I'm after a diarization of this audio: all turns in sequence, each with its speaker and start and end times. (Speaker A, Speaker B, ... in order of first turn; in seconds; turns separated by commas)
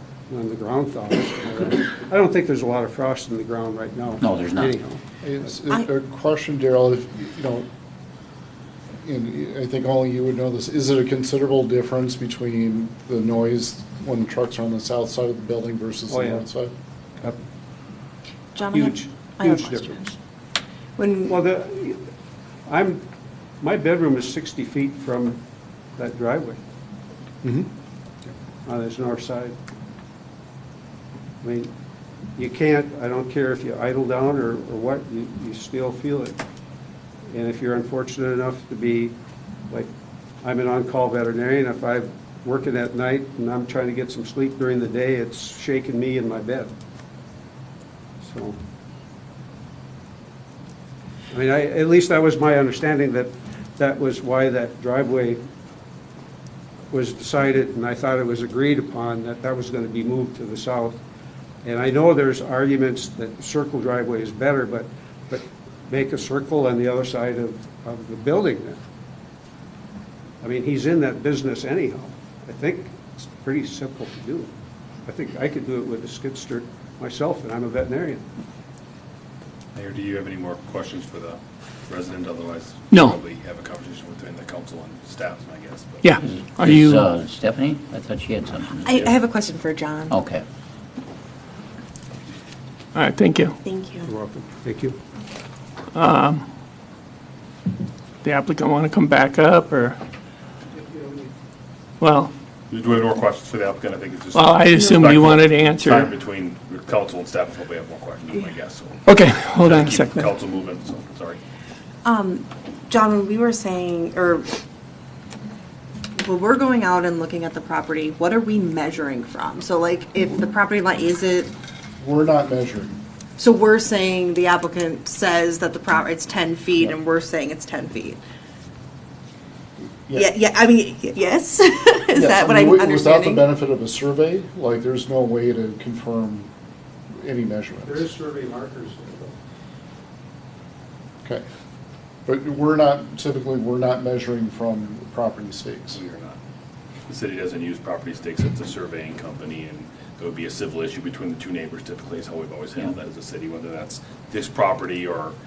Speaker A: 0.3-5.0, Speaker B: 4.2-4.8, Speaker C: 5.2-7.7, Speaker C: 9.0-16.7, Speaker A: 16.1-16.4, Speaker D: 18.6-20.0, Speaker A: 18.7-20.2, Speaker D: 21.0-21.3, Speaker A: 21.3-22.0, Speaker A: 22.7-23.0, Speaker A: 23.6-25.4, Speaker A: 26.0-26.6, Speaker A: 28.6-29.6, Speaker A: 31.4-31.7, Speaker A: 32.4-36.4, Speaker A: 37.3-39.1, Speaker A: 40.4-46.7, Speaker A: 48.2-48.6, Speaker A: 51.3-55.4, Speaker A: 56.9-61.0, Speaker A: 61.6-68.8, Speaker A: 70.4-74.5, Speaker A: 75.0-78.3, Speaker E: 79.7-86.1, Speaker F: 82.9-83.2, Speaker F: 86.0-87.1, Speaker B: 86.5-88.9, Speaker D: 88.8-90.1, Speaker B: 90.1-90.4, Speaker F: 93.0-93.6, Speaker D: 93.7-94.1, Speaker A: 94.0-95.0, Speaker F: 95.9-96.5, Speaker F: 98.2-100.0, Speaker F: 102.0-102.3, Speaker E: 102.7-109.0, Speaker F: 104.3-106.1, Speaker F: 109.1-110.3, Speaker E: 109.6-111.4, Speaker D: 112.0-114.5, Speaker D: 116.2-121.5, Speaker C: 122.0-122.9, Speaker D: 123.4-128.2, Speaker D: 130.1-133.4, Speaker C: 132.2-136.5, Speaker C: 137.2-138.1, Speaker A: 137.9-139.3, Speaker C: 142.3-146.0, Speaker E: 145.9-146.4, Speaker E: 147.1-155.3